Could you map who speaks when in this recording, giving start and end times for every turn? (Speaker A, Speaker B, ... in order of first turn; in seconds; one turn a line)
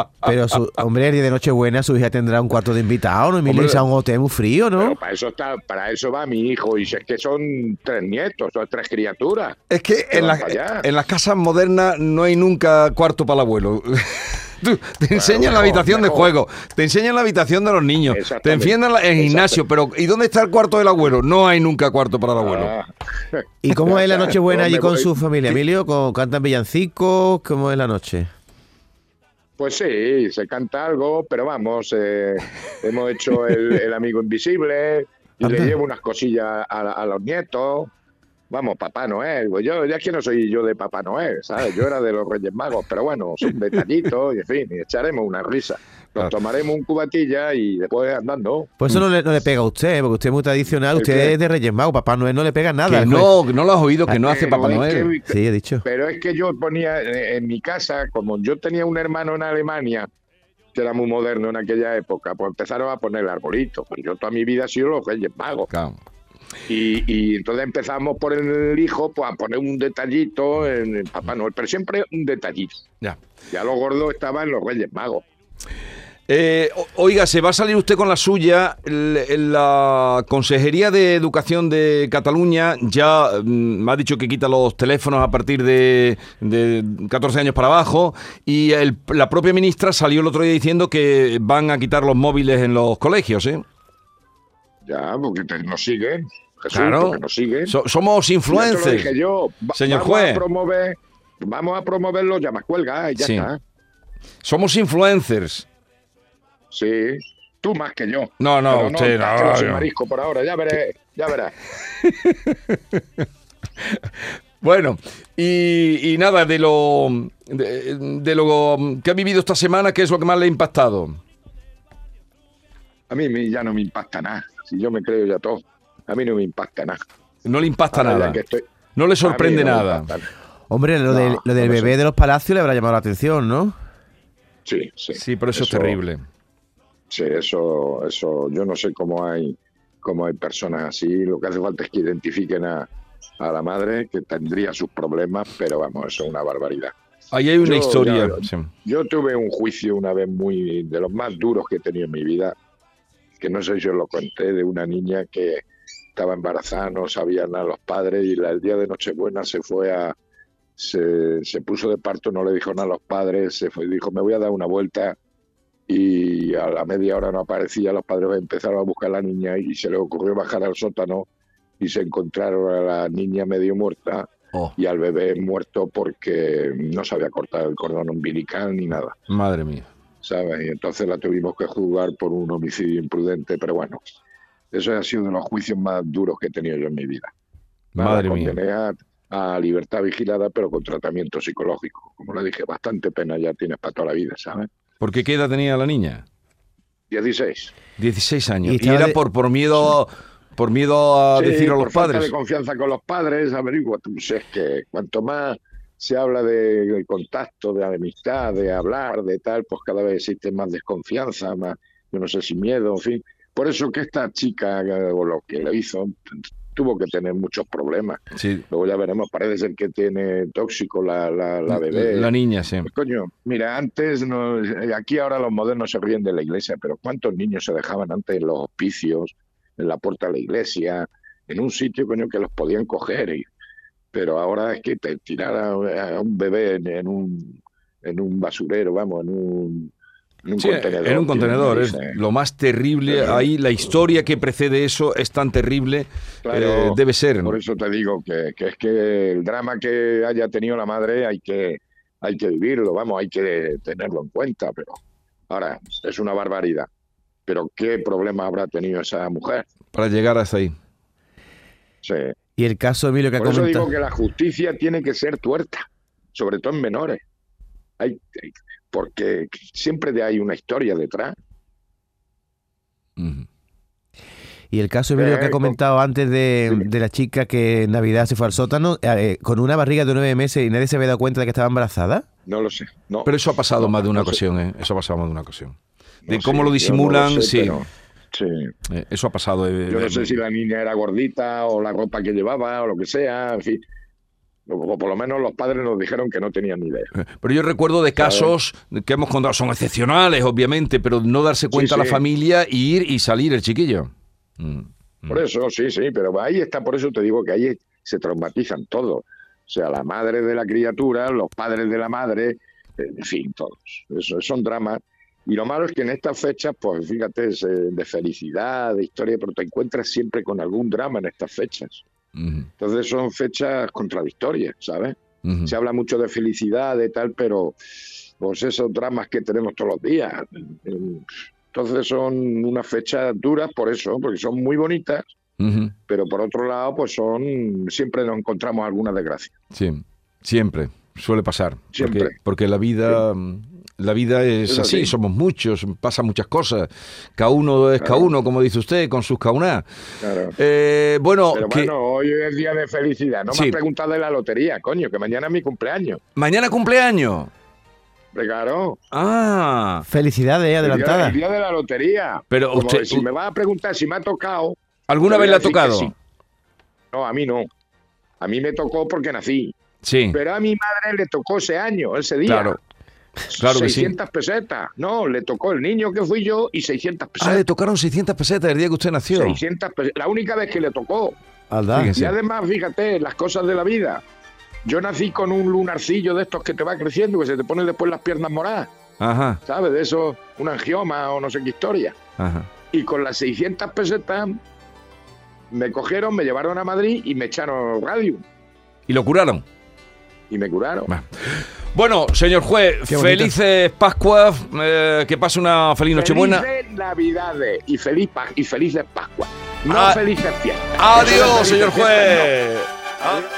Speaker A: 0.2-5.0
Speaker B: 3.5-3.8
Speaker C: 4.8-9.6
Speaker B: 9.7-22.7
Speaker C: 10.1-10.9
Speaker C: 15.1-16.3
Speaker C: 18.1-19.6
Speaker C: 22.4-25.2
Speaker A: 23.6-28.3
Speaker C: 29.6-37.9
Speaker A: 35.4-35.7
Speaker C: 38.5-48.7
Speaker A: 48.8-53.3
Speaker C: 50.9-51.4
Speaker B: 52.9-55.1
Speaker C: 54.1-60.1
Speaker A: 55.2-55.8
Speaker C: 60.7-65.7
Speaker B: 65.7-66.0
Speaker C: 66.7-72.8
Speaker C: 73.5-75.2
Speaker B: 76.3-93.6
Speaker C: 94.8-97.7
Speaker B: 96.7-99.1
Speaker C: 98.5-103.6
Speaker B: 99.7-100.4
Speaker B: 103.2-103.5
Speaker B: 104.4-105.7
Speaker C: 106.7-111.5
Speaker B: 108.4-109.9
Speaker B: 111.9-113.2
Speaker B: 114.6-121.2
Speaker C: 123.1-127.0
Speaker B: 127.4-128.4
Speaker C: 127.9-128.6
Speaker B: 128.9-130.1
Speaker C: 129.2-130.3
Speaker A: 130.7-133.7
Speaker C: 131.1-131.9
Speaker C: 134.6-136.0
Speaker B: 135.1-136.2
Speaker C: 137.1-142.9
Speaker C: 143.4-146.9
Speaker B: 147.3-148.7
Speaker C: 147.6-152.5
Speaker C: 153.4-160.2
Speaker C: 160.8-165.2
Speaker C: 165.9-171.3
Speaker C: 171.8-179.2
Speaker B: 179.3-179.9
Speaker C: 180.2-184.0
Speaker C: 184.7-187.3
Speaker B: 187.9-188.6
Speaker C: 188.0-194.7
Speaker B: 195.0-196.2
Speaker C: 197.1-197.7
Speaker B: 198.0-202.3
Speaker A: 198.6-199.2
Speaker C: 201.3-222.3
Speaker B: 218.3-218.6
Speaker B: 221.7-222.9
Speaker C: 222.8-233.5
Speaker C: 234.1-239.9
Speaker C: 240.4-242.2
Speaker B: 240.6-247.6
Speaker C: 243.1-243.5
Speaker C: 246.4-256.9
Speaker C: 257.4-259.6
Speaker B: 259.9-260.7
Speaker C: 262.0-262.3
Speaker A: 262.6-263.9
Speaker C: 263.4-267.2
Speaker C: 268.0-271.4
Speaker B: 273.2-273.4
Speaker A: 274.7-282.2
Speaker C: 275.1-275.8
Speaker C: 282.4-284.4
Speaker B: 283.2-285.8
Speaker C: 286.2-288.7
Speaker B: 286.3-287.8
Speaker B: 288.9-290.4
Speaker C: 289.9-293.8
Speaker C: 294.7-297.1
Speaker B: 297.2-305.4
Speaker C: 298.2-298.5
Speaker C: 301.7-302.2
Speaker C: 305.3-322.0
Speaker B: 322.4-322.7
Speaker C: 322.8-335.3
Speaker B: 325.4-325.7
Speaker B: 335.6-335.9
Speaker C: 336.1-339.5
Speaker B: 339.7-349.9
Speaker C: 341.9-342.4
Speaker C: 344.6-345.2
Speaker C: 348.0-348.3
Speaker C: 350.2-350.6
Speaker B: 350.6-351.9
Speaker C: 351.5-356.2
Speaker B: 353.5-353.8
Speaker B: 356.4-357.5
Speaker C: 358.3-359.0
Speaker B: 359.1-360.1
Speaker A: 360.1-361.4
Speaker C: 360.8-366.1
Speaker B: 362.5-363.2
Speaker B: 365.1-366.1
Speaker C: 367.1-367.7
Speaker C: 368.4-369.7
Speaker B: 370.0-370.4
Speaker C: 370.3-372.8
Speaker B: 372.4-372.8
Speaker C: 373.5-377.6
Speaker B: 373.6-374.1
Speaker B: 377.4-379.6
Speaker C: 379.3-381.4
Speaker A: 381.7-382.2
Speaker B: 381.9-382.3
Speaker C: 382.1-384.2
Speaker C: 384.8-388.9
Speaker B: 389.2-389.6
Speaker C: 389.6-392.2
Speaker B: 392.4-392.7
Speaker C: 392.9-394.6
Speaker C: 395.7-398.4
Speaker B: 399.1-399.6
Speaker C: 400.5-401.1
Speaker B: 401.1-406.7
Speaker A: 403.1-403.5
Speaker C: 406.1-412.5
Speaker B: 409.9-410.2
Speaker B: 411.0-413.4